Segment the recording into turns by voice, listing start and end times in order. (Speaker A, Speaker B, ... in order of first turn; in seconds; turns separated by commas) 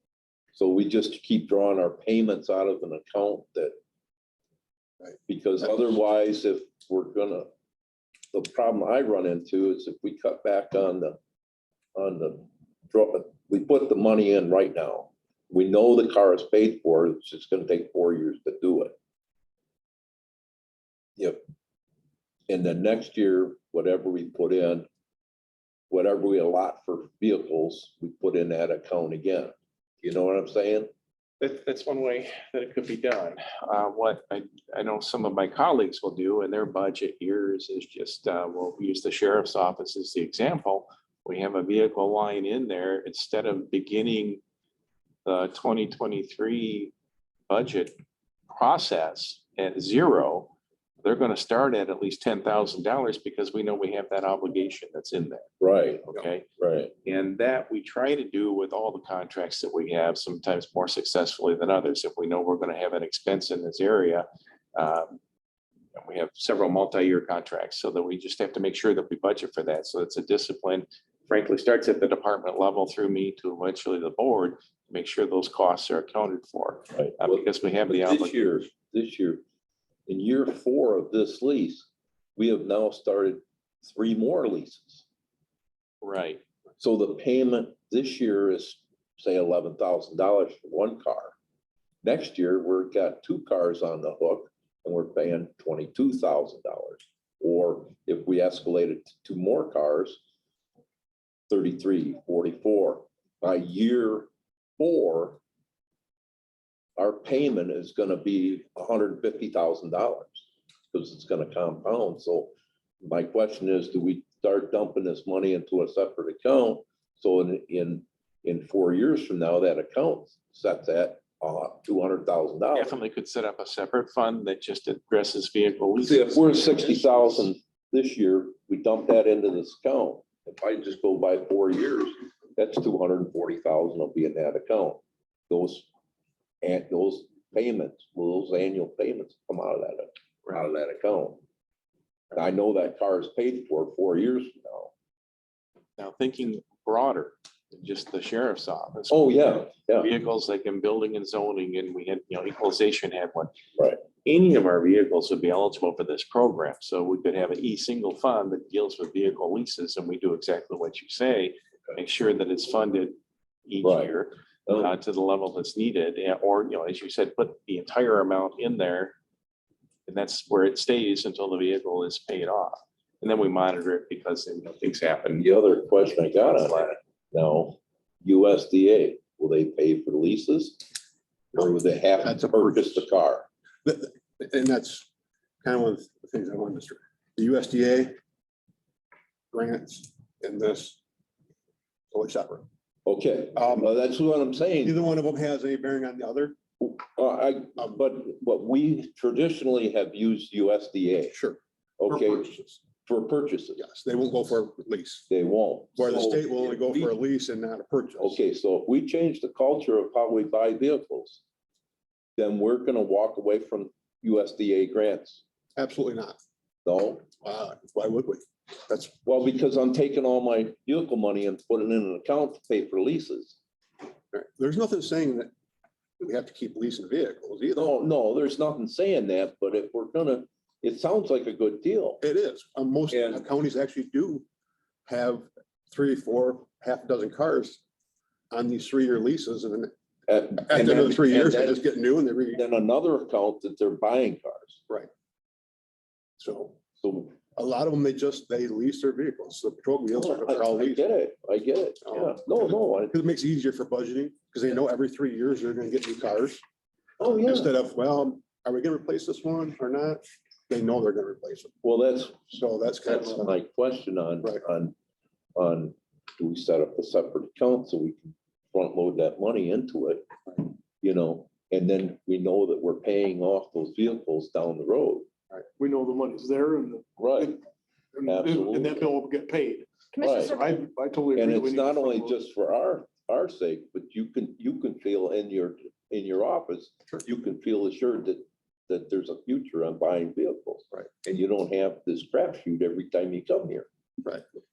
Speaker A: 0.5-3.8, Speaker A: 5.3-7.5, Speaker A: 8.3-11.2, Speaker A: 11.9-18.9, Speaker A: 22.5-24.9, Speaker A: 25.9-30.9, Speaker B: 31.4-44.4, Speaker B: 45.2-46.9, Speaker B: 47.5-48.0, Speaker B: 48.5-50.5, Speaker B: 51.0-55.5, Speaker A: 55.6-56.9, Speaker B: 56.0-56.5, Speaker B: 57.0-65.2, Speaker B: 66.0-78.5, Speaker A: 76.9-79.4, Speaker A: 80.1-85.0, Speaker B: 86.0-86.4, Speaker A: 86.8-91.3, Speaker A: 92.0-100.2, Speaker A: 101.5-105.4, Speaker A: 107.0-123.0, Speaker B: 122.7-127.1, Speaker A: 126.0-135.9, Speaker A: 136.6-141.4, Speaker A: 142.3-144.9, Speaker B: 146.0-153.5, Speaker A: 149.1-150.1, Speaker B: 154.2-163.2, Speaker B: 163.7-169.1, Speaker A: 163.8-164.1, Speaker A: 164.7-164.9, Speaker B: 170.1-176.9, Speaker A: 175.4-180.8, Speaker A: 181.5-183.5, Speaker C: 182.2-183.1, Speaker C: 183.8-185.1, Speaker C: 185.6-188.1, Speaker C: 189.5-191.0, Speaker C: 192.1-192.7, Speaker A: 193.1-194.9, Speaker C: 193.5-193.9, Speaker C: 194.8-196.6, Speaker A: 196.8-201.4, Speaker C: 201.3-202.8, Speaker A: 202.0-202.5, Speaker A: 203.0-203.8, Speaker C: 203.8-205.3, Speaker A: 205.3-207.1, Speaker C: 205.9-208.4, Speaker A: 208.2-211.4, Speaker A: 212.4-215.4, Speaker C: 215.8-216.4, Speaker A: 216.8-217.2, Speaker C: 217.4-219.2, Speaker A: 219.2-223.6, Speaker C: 224.3-225.5, Speaker C: 226.2-227.9, Speaker A: 227.8-232.2, Speaker C: 232.2-234.4, Speaker A: 233.1-233.4, Speaker C: 235.1-237.8, Speaker C: 238.5-239.9, Speaker A: 240.3-241.8, Speaker C: 240.5-242.6, Speaker A: 242.5-244.8, Speaker C: 246.4-246.8, Speaker A: 247.0-247.3, Speaker C: 247.5-251.0, Speaker A: 250.1-253.1, Speaker C: 252.0-256.6, Speaker A: 257.2-257.7, Speaker C: 257.2-261.7, Speaker A: 261.8-264.9, Speaker C: 262.5-263.5, Speaker A: 265.6-270.3, Speaker A: 271.0-275.3, Speaker D: 275.8-277.6, Speaker A: 277.2-277.6, Speaker D: 278.1-282.4, Speaker A: 278.2-279.1, Speaker A: 280.2-280.6, Speaker A: 281.3-293.9